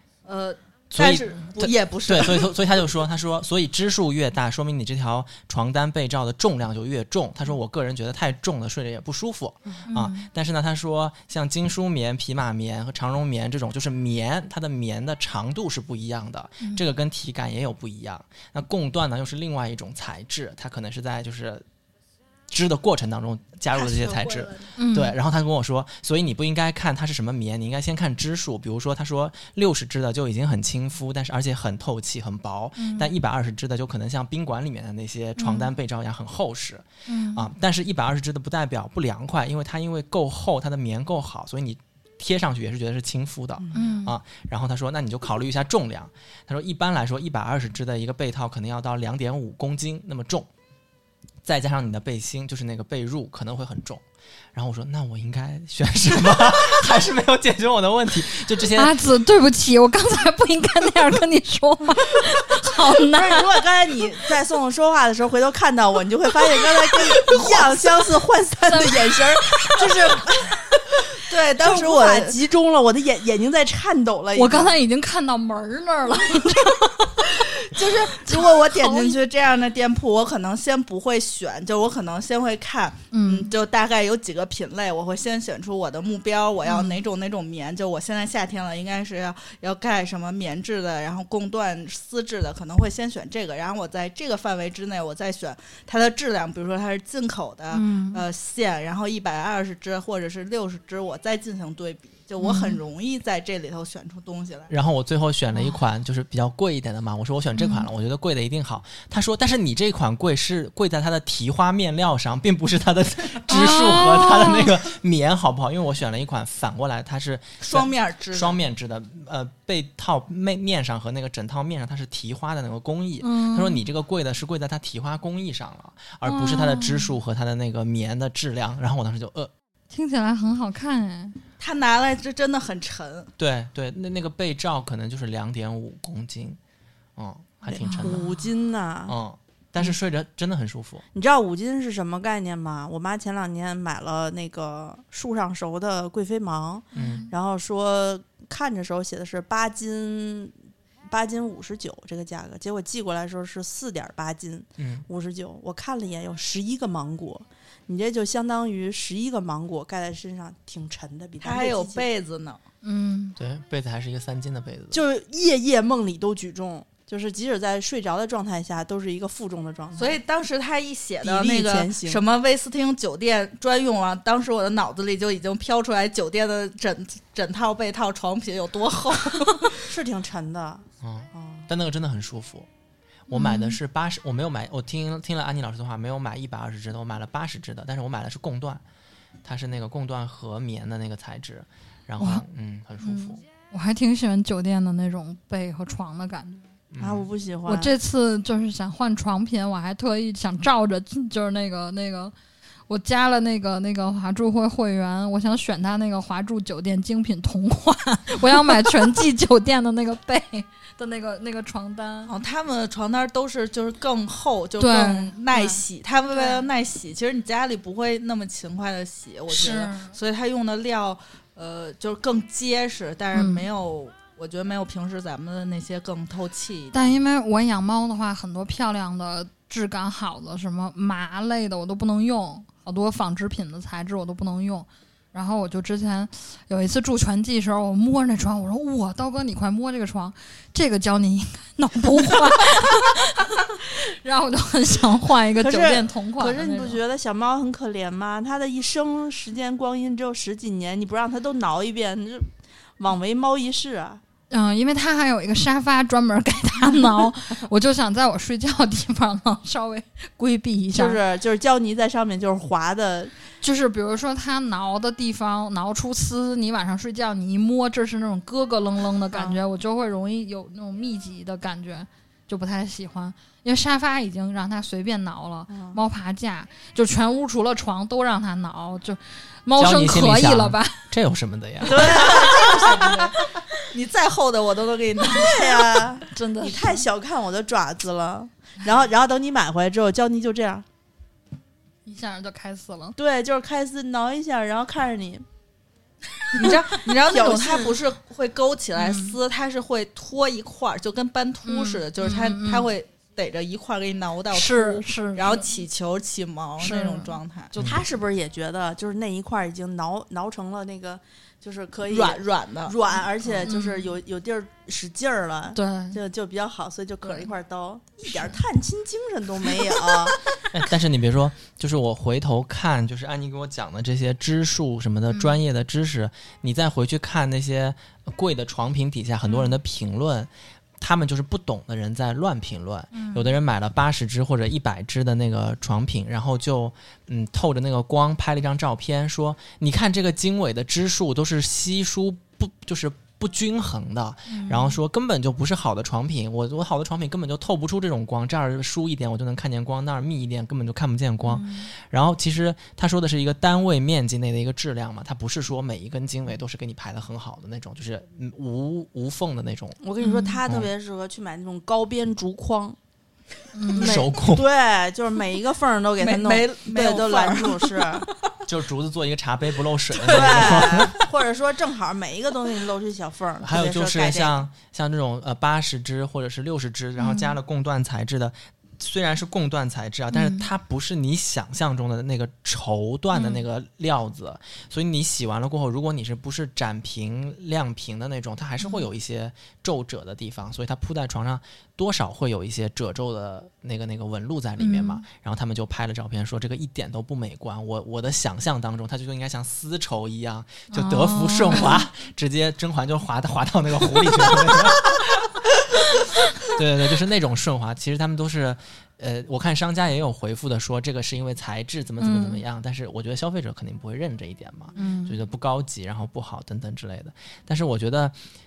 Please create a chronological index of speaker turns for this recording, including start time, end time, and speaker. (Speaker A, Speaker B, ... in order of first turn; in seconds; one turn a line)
Speaker A: 0.2-2.5
Speaker B: 0.9-21.6
Speaker C: 9.9-10.3
Speaker B: 22.5-50.5
Speaker A: 23.8-24.5
Speaker C: 24.8-25.2
Speaker C: 32.8-33.1
Speaker C: 35.4-35.7
Speaker C: 37.1-37.5
Speaker D: 43.6-43.9
Speaker C: 43.7-44.1
Speaker B: 51.4-54.0
Speaker B: 54.5-58.9
Speaker C: 58.7-63.5
Speaker D: 63.1-70.9
Speaker C: 68.7-69.8
Speaker A: 71.2-72.3
Speaker D: 71.6-74.8
Speaker C: 74.3-77.2
Speaker A: 77.2-104.7
Speaker C: 78.1-79.2
Speaker C: 83.1-83.5
Speaker C: 86.7-87.0
Speaker C: 97.7-98.2
Speaker C: 102.4-102.8
Speaker B: 104.7-129.5
Speaker C: 105.5-105.8
Speaker C: 107.5-107.9
Speaker C: 113.5-114.7
Speaker A: 117.6-118.6
Speaker C: 123.2-123.8
Speaker C: 126.2-127.2
Speaker C: 129.9-131.4
Speaker A: 131.6-133.3
Speaker B: 133.4-136.6
Speaker B: 137.2-138.2
Speaker C: 137.8-138.2
Speaker D: 138.0-139.2
Speaker B: 139.1-141.0
Speaker D: 141.1-150.5
Speaker C: 146.9-147.3
Speaker B: 146.9-147.2
Speaker D: 151.1-162.1
Speaker B: 154.8-155.0
Speaker A: 161.4-162.6
Speaker C: 162.8-163.3
Speaker B: 163.4-165.0
Speaker D: 164.9-170.2
Speaker A: 169.9-179.8
Speaker D: 171.2-172.2
Speaker D: 179.8-181.7
Speaker B: 181.0-182.7
Speaker C: 183.3-183.8
Speaker B: 183.3-188.8
Speaker B: 189.4-193.4
Speaker C: 193.0-196.7
Speaker B: 196.9-197.3
Speaker D: 197.0-197.9
Speaker C: 197.7-202.3
Speaker C: 202.9-212.3
Speaker A: 212.3-227.2
Speaker C: 214.8-216.7
Speaker C: 219.5-220.2
Speaker C: 223.3-223.7
Speaker C: 226.9-247.0
Speaker D: 245.6-252.5
Speaker D: 253.0-254.2
Speaker C: 254.5-261.2
Speaker D: 260.9-263.3
Speaker C: 263.6-281.1
Speaker D: 269.3-269.6
Speaker D: 275.7-276.0
Speaker B: 279.8-282.2
Speaker D: 281.8-283.3
Speaker A: 281.9-286.0
Speaker C: 282.8-283.1
Speaker D: 285.3-290.8
Speaker C: 286.3-287.0
Speaker C: 292.1-293.1
Speaker D: 293.2-295.4
Speaker A: 296.5-307.8
Speaker D: 297.2-298.0
Speaker C: 298.9-299.4
Speaker C: 301.6-302.9
Speaker C: 304.5-305.7
Speaker C: 306.8-307.4
Speaker B: 307.8-308.0
Speaker D: 307.8-320.4
Speaker A: 312.1-313.0
Speaker C: 313.6-314.1
Speaker C: 315.7-316.2
Speaker B: 320.7-360.0
Speaker C: 325.3-325.6
Speaker C: 329.5-329.7
Speaker C: 333.1-333.6
Speaker C: 344.5-345.0
Speaker C: 351.4-351.9
Speaker D: 360.0-363.0
Speaker C: 360.2-360.6
Speaker C: 363.7-364.1
Speaker D: 363.9-368.3
Speaker B: 363.9-364.6
Speaker A: 366.2-368.2
Speaker B: 368.7-371.1
Speaker A: 370.2-371.0
Speaker D: 370.3-374.7
Speaker B: 373.6-405.6
Speaker C: 377.2-377.6
Speaker C: 380.3-380.6
Speaker C: 383.3-383.6
Speaker C: 388.8-389.1
Speaker C: 394.8-395.2
Speaker C: 400.9-402.0
Speaker B: 406.6-418.3
Speaker C: 412.2-412.6
Speaker C: 414.9-415.4